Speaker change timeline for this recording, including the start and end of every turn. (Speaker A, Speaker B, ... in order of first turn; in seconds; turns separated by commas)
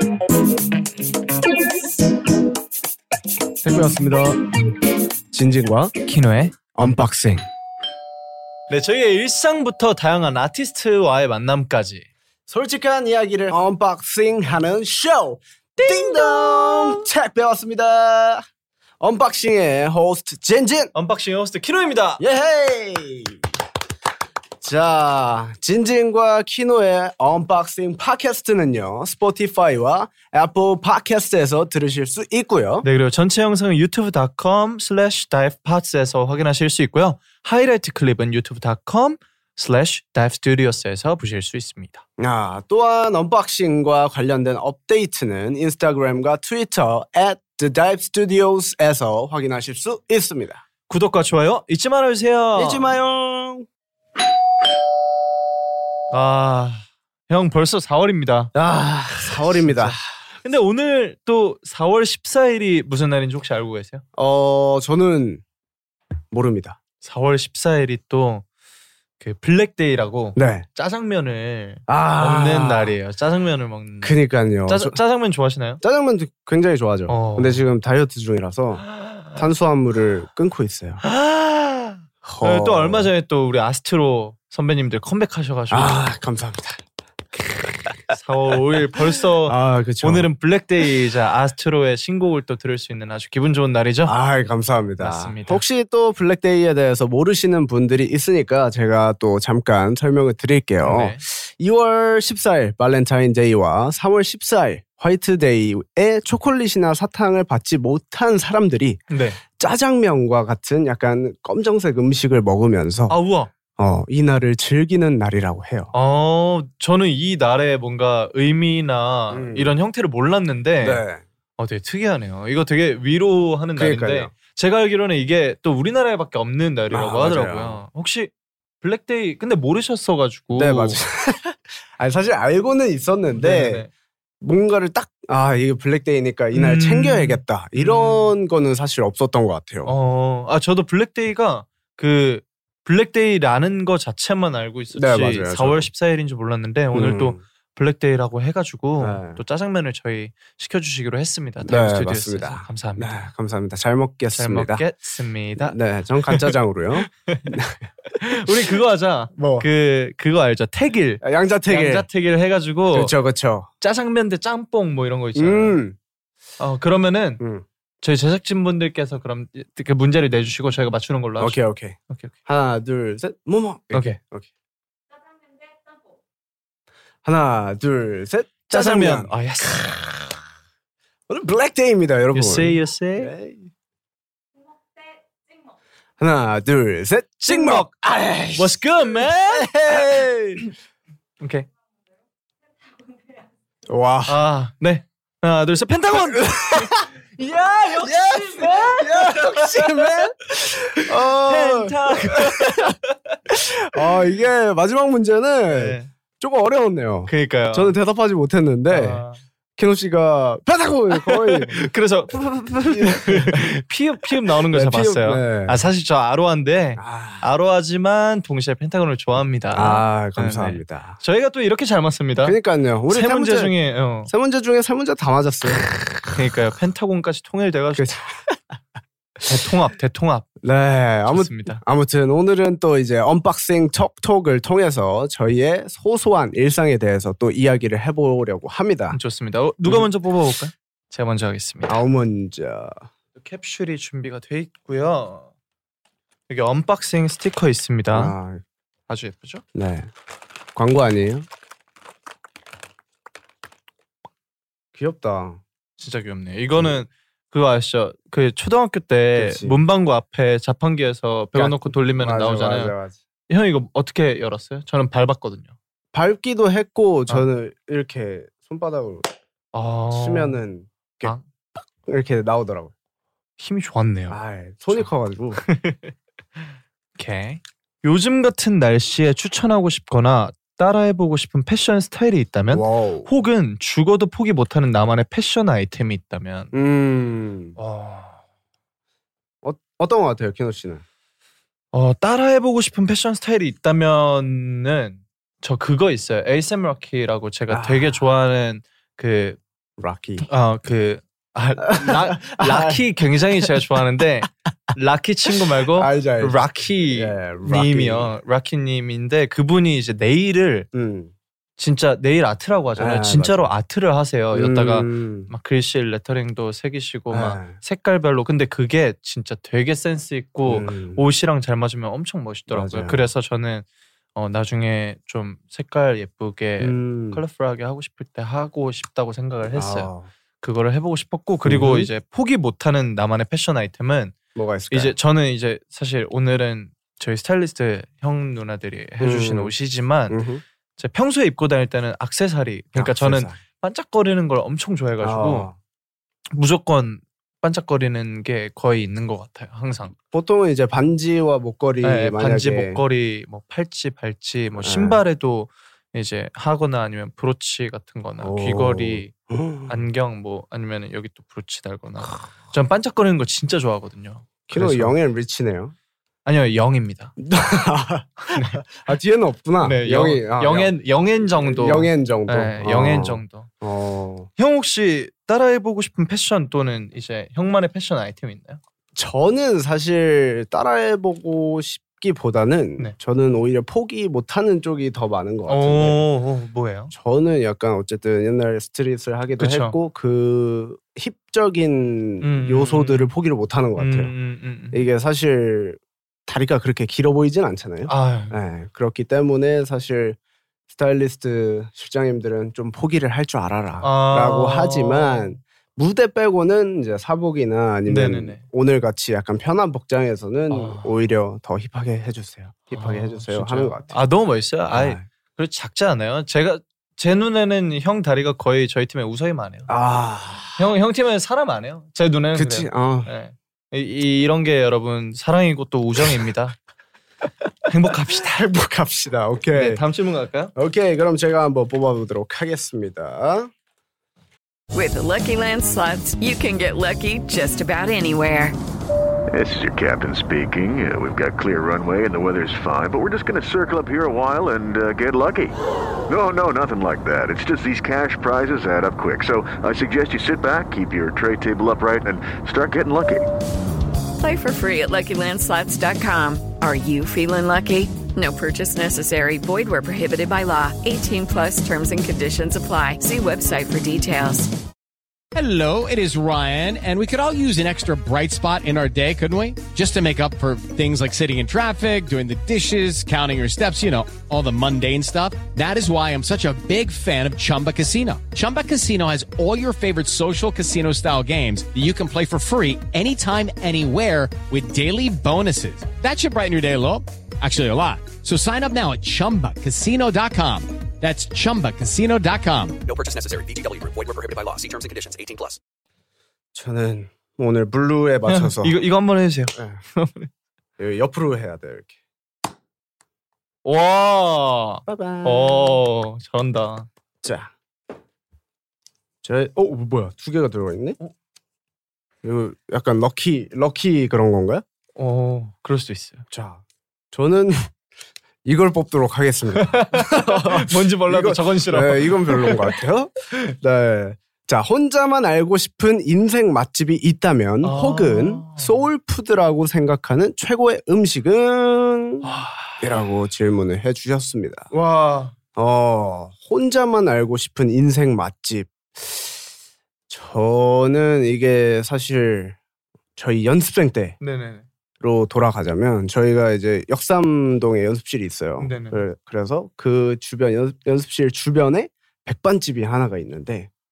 Speaker A: 3.6-4.5, Speaker A: 5.3-5.9, Speaker B: 6.0-6.6, Speaker A: 6.8-7.4, Speaker B: 8.7-12.1, Speaker A: 12.5-18.4, Speaker B: 15.8-17.1, Speaker A: 19.0-20.9, Speaker B: 20.9-22.2, Speaker A: 22.2-23.4, Speaker A: 24.6-32.9, Speaker B: 32.8-42.0, Speaker A: 42.2-50.6, Speaker B: 50.9-52.9, Speaker A: 52.6-53.7, Speaker B: 56.1-58.5, Speaker A: 58.5-60.0, Speaker B: 59.2-64.0, Speaker A: 64.2-65.4, Speaker A: 66.3-66.8, Speaker B: 67.0-68.5, Speaker B: 69.2-75.8, Speaker A: 70.4-70.7, Speaker A: 71.9-73.0, Speaker A: 74.0-75.0, Speaker A: 75.8-78.8, Speaker B: 77.1-77.6, Speaker B: 78.8-79.5, Speaker A: 79.3-81.0, Speaker B: 81.0-86.0, Speaker A: 82.2-83.1, Speaker A: 85.7-86.8, Speaker A: 87.4-88.0, Speaker B: 88.1-94.2, Speaker A: 89.4-90.3, Speaker A: 94.1-109.0, Speaker B: 95.0-95.6, Speaker B: 100.8-101.2, Speaker B: 109.1-109.4, Speaker A: 109.6-113.2, Speaker B: 113.1-113.5, Speaker A: 113.8-115.9, Speaker B: 115.9-121.0, Speaker A: 119.3-119.7, Speaker A: 120.8-121.2, Speaker B: 121.6-128.3, Speaker A: 123.8-124.3, Speaker A: 126.9-127.8, Speaker B: 128.8-131.0, Speaker A: 130.6-133.9, Speaker B: 133.3-133.9, Speaker A: 134.4-139.9, Speaker B: 136.5-138.3, Speaker B: 139.8-153.3, Speaker A: 144.9-145.9, Speaker A: 146.9-147.4, Speaker A: 149.0-149.4, Speaker A: 151.6-154.8, Speaker B: 154.3-155.8, Speaker A: 155.6-158.7, Speaker B: 156.3-157.6, Speaker B: 158.1-163.1, Speaker A: 159.4-159.7, Speaker A: 161.2-162.1, Speaker A: 162.9-163.7, Speaker B: 163.8-165.8, Speaker A: 165.4-166.0, Speaker B: 166.6-167.4, Speaker A: 167.4-167.7, Speaker B: 168.0-172.3, Speaker A: 171.4-174.5, Speaker B: 173.9-174.2, Speaker A: 177.2-180.3, Speaker B: 178.7-180.0, Speaker A: 181.3-183.7, Speaker B: 182.3-183.3, Speaker A: 186.2-190.7, Speaker B: 187.4-187.9, Speaker B: 188.6-190.7, Speaker B: 191.4-191.7, Speaker A: 193.9-194.4, Speaker B: 194.3-203.1, Speaker A: 196.2-197.1, Speaker A: 198.0-202.9, Speaker A: 203.5-209.2, Speaker B: 204.0-204.2, Speaker B: 205.7-206.1, Speaker B: 207.3-207.9, Speaker B: 208.9-209.4, Speaker A: 209.8-211.8, Speaker B: 211.1-222.6, Speaker A: 212.4-213.7, Speaker A: 214.6-215.8, Speaker A: 217.0-217.5, Speaker A: 219.7-221.2, Speaker A: 222.4-223.7, Speaker B: 223.1-224.3, Speaker A: 224.3-226.2, Speaker B: 226.3-228.2, Speaker A: 228.0-228.6, Speaker B: 229.4-230.6, Speaker A: 230.6-239.2, Speaker B: 231.3-231.8, Speaker B: 239.1-242.0, Speaker A: 241.9-243.1, Speaker B: 243.4-245.5, Speaker B: 246.5-248.3, Speaker A: 248.1-248.6, Speaker B: 249.1-249.6, Speaker A: 249.8-250.1, Speaker A: 250.8-251.5, Speaker A: 254.9-255.6, Speaker B: 256.0-263.0, Speaker A: 259.4-259.8, Speaker A: 261.5-263.2, Speaker B: 263.5-265.8, Speaker A: 266.1-269.3, Speaker B: 269.7-270.6, Speaker A: 270.1-272.9, Speaker B: 273.6-274.4, Speaker A: 274.3-275.6, Speaker B: 274.9-276.7, Speaker B: 277.2-286.7, Speaker A: 282.7-283.3, Speaker A: 286.7-287.8, Speaker B: 287.8-288.4, Speaker A: 289.6-291.0, Speaker B: 291.9-299.6, Speaker A: 297.7-298.2, Speaker A: 300.0-300.5, Speaker B: 300.4-310.9, Speaker A: 301.9-303.0, Speaker A: 305.5-306.6, Speaker A: 307.1-308.3, Speaker A: 310.9-311.3, Speaker B: 311.8-334.4, Speaker A: 313.0-313.7, Speaker A: 314.5-315.5, Speaker A: 317.3-317.8, Speaker A: 320.7-321.2, Speaker A: 322.7-323.2, Speaker A: 326.8-327.4, Speaker A: 329.7-330.3, Speaker A: 331.6-332.1, Speaker A: 334.6-335.1, Speaker B: 334.9-340.4, Speaker A: 339.2-339.7, Speaker A: 340.3-340.6, Speaker B: 341.0-345.7, Speaker A: 342.9-343.6, Speaker A: 345.2-345.8, Speaker B: 346.5-350.2, Speaker A: 350.3-353.0, Speaker B: 352.0-359.3, Speaker A: 354.8-355.2, Speaker A: 358.4-360.0, Speaker B: 359.9-365.1, Speaker A: 364.7-365.9, Speaker B: 366.5-367.4, Speaker A: 367.4-370.9, Speaker B: 368.5-368.9, Speaker B: 369.8-373.7, Speaker A: 371.6-374.5, Speaker B: 374.6-378.8, Speaker A: 379.1-386.2, Speaker B: 385.7-387.1, Speaker A: 387.1-394.3, Speaker B: 389.6-390.0, Speaker B: 392.4-393.3, Speaker B: 394.0-395.1, Speaker A: 394.9-400.4, Speaker B: 398.1-398.6, Speaker A: 400.9-414.1, Speaker B: 404.0-405.6, Speaker B: 408.1-408.6, Speaker B: 410.7-411.2, Speaker B: 412.9-419.9, Speaker A: 414.9-415.2, Speaker A: 419.9-420.9, Speaker B: 420.8-426.8, Speaker A: 422.6-423.3, Speaker B: 427.9-428.8, Speaker A: 428.4-430.0, Speaker B: 429.7-430.7, Speaker A: 430.8-433.7, Speaker C: 434.9-438.8, Speaker D: 439.5-445.8, Speaker D: 446.3-453.4, Speaker C: 454.4-464.7, Speaker E: 465.5-493.0, Speaker F: 493.1-495.8, Speaker A: 496.7-498.9, Speaker B: 498.5-500.5, Speaker A: 501.0-502.1, Speaker B: 503.9-507.1, Speaker A: 505.1-506.0, Speaker A: 507.4-507.7, Speaker A: 509.4-511.2, Speaker A: 512.4-514.8, Speaker B: 515.2-516.5, Speaker A: 516.5-517.9, Speaker A: 518.6-534.9, Speaker B: 519.7-523.0, Speaker B: 527.8-529.1, Speaker B: 532.4-533.1, Speaker B: 534.9-535.6, Speaker A: 535.8-539.6, Speaker A: 540.3-542.8, Speaker A: 543.4-544.4, Speaker B: 544.4-544.9, Speaker A: 545.2-553.9, Speaker B: 548.8-549.2